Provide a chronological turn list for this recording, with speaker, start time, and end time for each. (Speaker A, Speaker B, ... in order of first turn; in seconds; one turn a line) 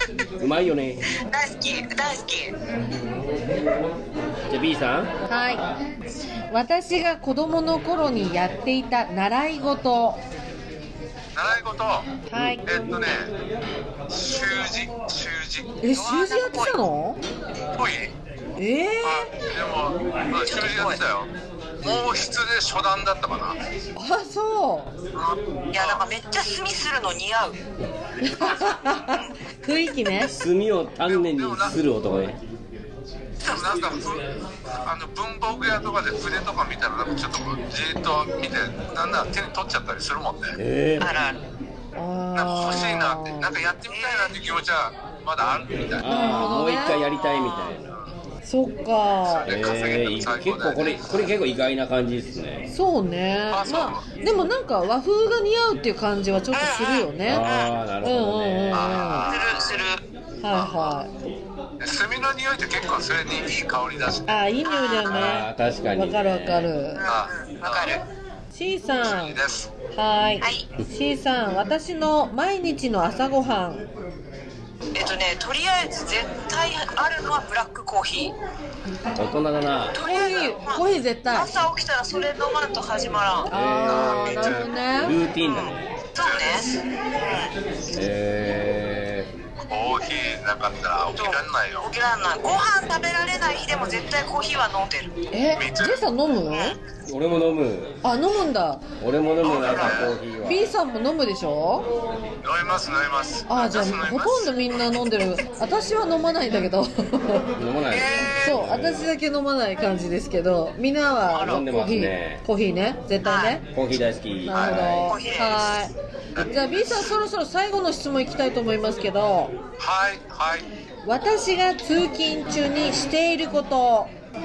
Speaker A: 0.4-1.1
Speaker B: 1.2-2.5
Speaker A: 4.5-5.1
Speaker C: 5.3-5.6
Speaker C: 6.5-10.2
Speaker D: 11.3-12.1
Speaker C: 12.3-12.7
Speaker D: 12.7-13.3
Speaker D: 14.1-15.8
Speaker C: 15.8-17.2
Speaker B: 15.9-16.8
Speaker D: 17.7-18.1
Speaker C: 18.6-19.3
Speaker D: 19.0-21.3
Speaker B: 20.4-21.0
Speaker D: 21.8-23.6
Speaker C: 24.0-24.9
Speaker B: 25.2-27.6
Speaker D: 25.8-26.0
Speaker C: 28.2-30.4
Speaker D: 28.4-28.7
Speaker A: 30.3-32.4
Speaker D: 31.0-31.7
Speaker D: 33.4-40.6
Speaker B: 33.4-34.0
Speaker A: 40.6-41.1
Speaker B: 41.0-41.4
Speaker C: 42.0-43.5
Speaker D: 42.4-46.4
Speaker B: 43.9-44.4
Speaker A: 46.0-47.9
Speaker C: 46.0-47.0
Speaker B: 47.2-47.7
Speaker C: 48.5-49.5
Speaker D: 49.3-51.2
Speaker A: 49.5-52.7
Speaker C: 52.7-57.5
Speaker D: 53.5-54.0
Speaker B: 56.5-57.8
Speaker A: 57.2-59.0
Speaker C: 58.0-59.3
Speaker D: 58.7-59.8
Speaker B: 59.3-60.0
Speaker C: 60.4-61.1
Speaker D: 60.5-61.0
Speaker D: 61.8-64.3
Speaker C: 64.3-67.0
Speaker B: 64.7-65.4
Speaker A: 65.1-66.7
Speaker B: 67.0-68.0
Speaker D: 67.1-68.0
Speaker C: 68.5-69.4
Speaker D: 69.0-69.7
Speaker C: 70.0-73.8
Speaker B: 70.4-70.7
Speaker B: 75.0-78.3
Speaker A: 79.2-80.0
Speaker B: 79.9-83.5
Speaker C: 80.0-81.5
Speaker C: 83.5-85.2
Speaker A: 83.5-85.8
Speaker D: 83.9-84.6
Speaker B: 85.4-87.5
Speaker D: 86.2-86.7
Speaker A: 87.9-89.3
Speaker D: 89.7-91.9
Speaker B: 91.2-95.1
Speaker C: 95.3-96.8
Speaker D: 95.5-96.0
Speaker B: 96.5-96.8
Speaker A: 97.1-98.0
Speaker C: 98.0-98.9
Speaker A: 99.0-100.6
Speaker D: 99.4-100.1
Speaker C: 100.4-101.9
Speaker D: 102.4-104.5
Speaker C: 103.5-107.5
Speaker A: 107.6-109.1
Speaker B: 107.9-108.5
Speaker C: 108.4-113.7
Speaker B: 111.3-111.6
Speaker A: 111.4-112.4
Speaker B: 113.2-113.6
Speaker A: 113.7-115.1
Speaker C: 114.5-119.6
Speaker D: 114.5-114.9
Speaker B: 115.0-115.8
Speaker D: 116.4-117.0
Speaker D: 119.8-120.7
Speaker C: 121.0-124.1